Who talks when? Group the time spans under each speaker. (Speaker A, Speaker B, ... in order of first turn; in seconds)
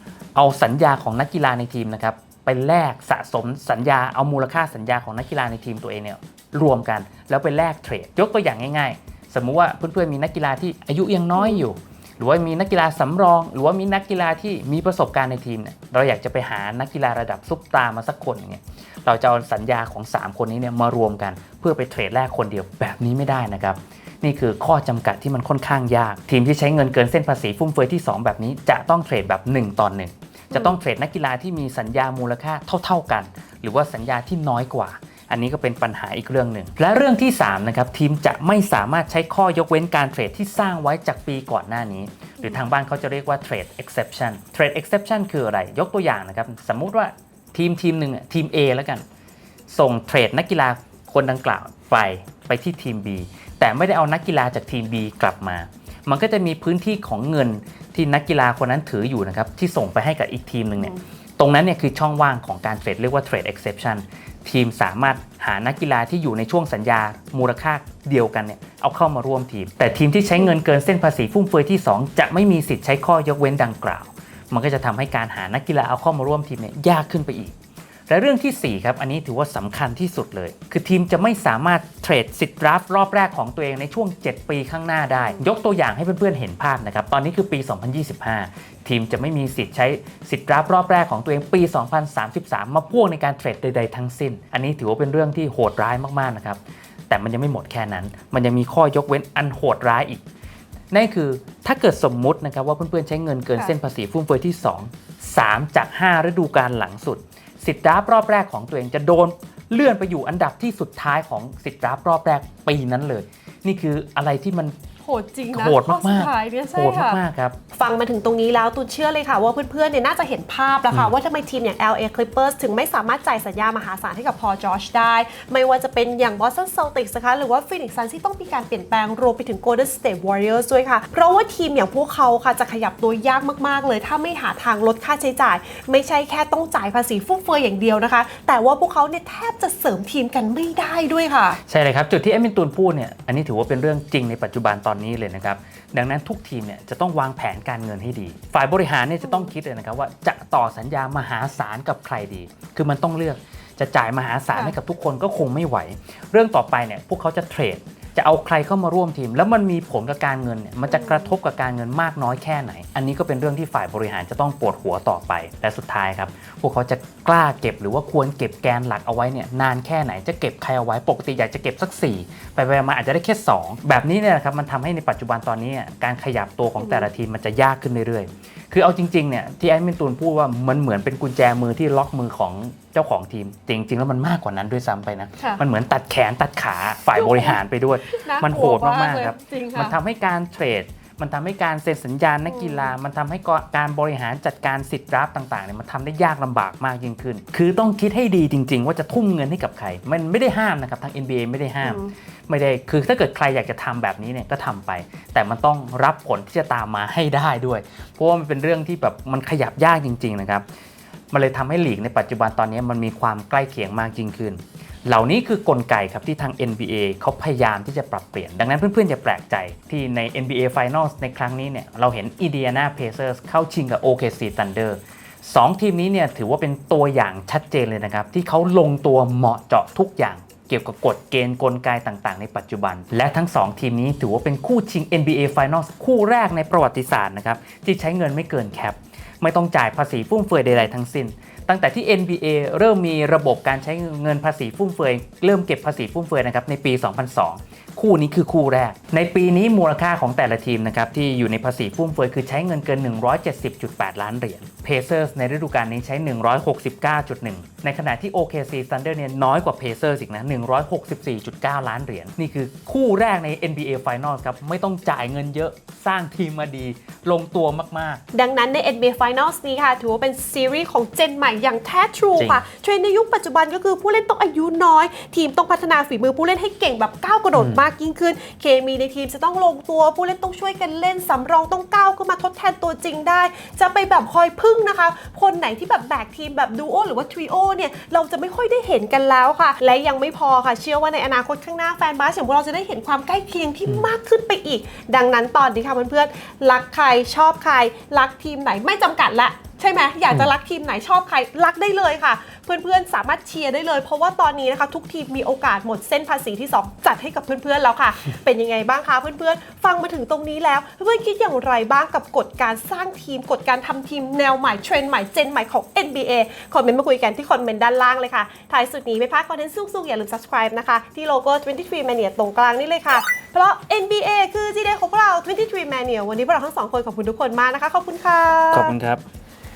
Speaker A: 0.3-49.0, 49.7-77.5, 78.1-96.6, 97.1-100.2, 100.9-114.8, 115.5-117.6, 141.7-210.6, 211.3-268.2, 272.4-272.6, 277.6-277.8, 328.7-329.2
Speaker B: 11.4-11.6, 85.2-85.4, 115.0-117.2, 117.7-141.6, 149.2-149.5, 160.9-161.3, 176.8-177.1, 185.4-185.6, 187.1-189.9, 192.5-192.9, 201.8-202.1, 268.3-329.0